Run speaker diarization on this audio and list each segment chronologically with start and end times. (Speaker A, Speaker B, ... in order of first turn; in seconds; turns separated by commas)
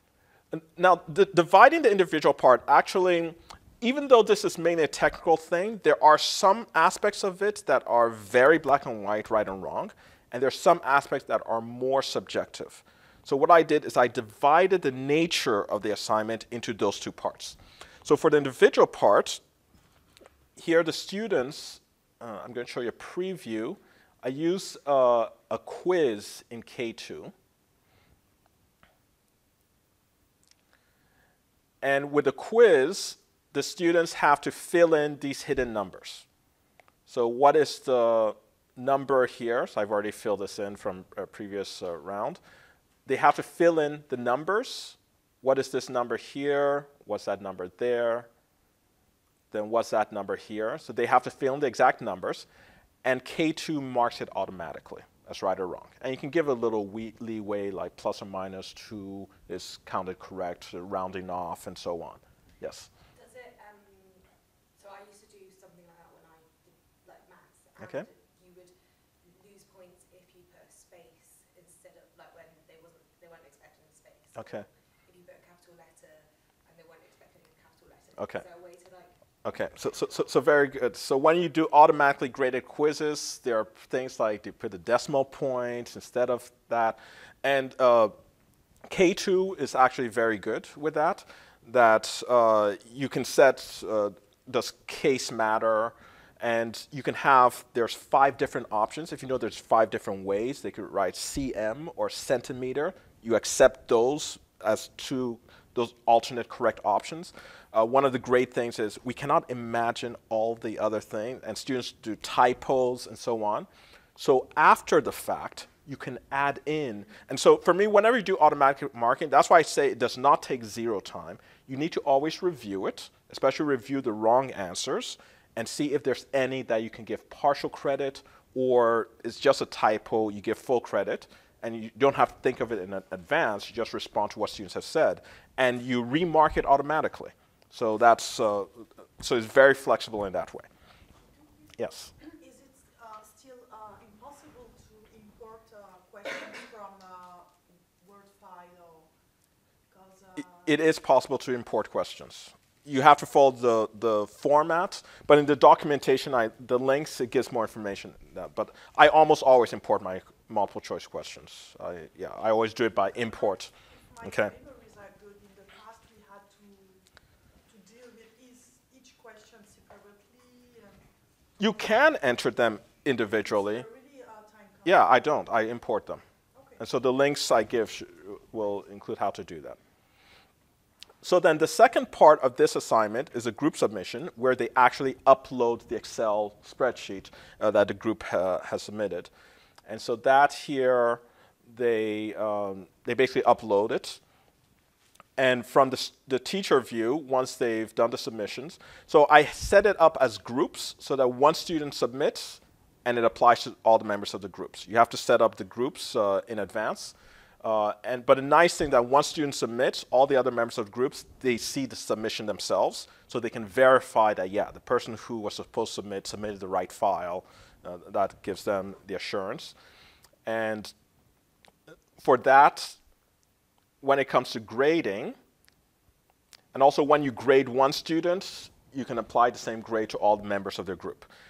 Speaker A: 0.5-19.4, Speaker A: 20.6-27.3, Speaker A: 31.8-36.2, Speaker A: 37.1-42.4, Speaker A: 43.0-48.3, Speaker A: 49.5-52.5, Speaker A: 53.0-62.9, Speaker B: 63.1-79.1, Speaker A: 67.8-68.1, Speaker A: 74.3-74.7, Speaker A: 78.2-78.4, Speaker A: 79.4-88.1, Speaker B: 79.9-80.2, Speaker A: 88.9-140.7, Speaker A: 141.8-142.1, Speaker C: 142.3-149.1, Speaker C: 149.9-150.8, Speaker A: 150.4-163.7, Speaker C: 163.3-167.0, Speaker A: 164.2-164.5, Speaker C: 167.7-171.0, Speaker A: 171.6-173.8, Speaker C: 173.4-175.1, Speaker A: 174.8-176.2, Speaker C: 176.5-176.8, Speaker A: 176.8-179.8, Speaker A: 181.2-189.3, Speaker A: 189.9-194.2, Speaker A: 195.4-219.7, Speaker A: 220.4-220.9, Speaker A: 222.2-223.0, Speaker A: 224.0-225.3, Speaker A: 226.7-231.3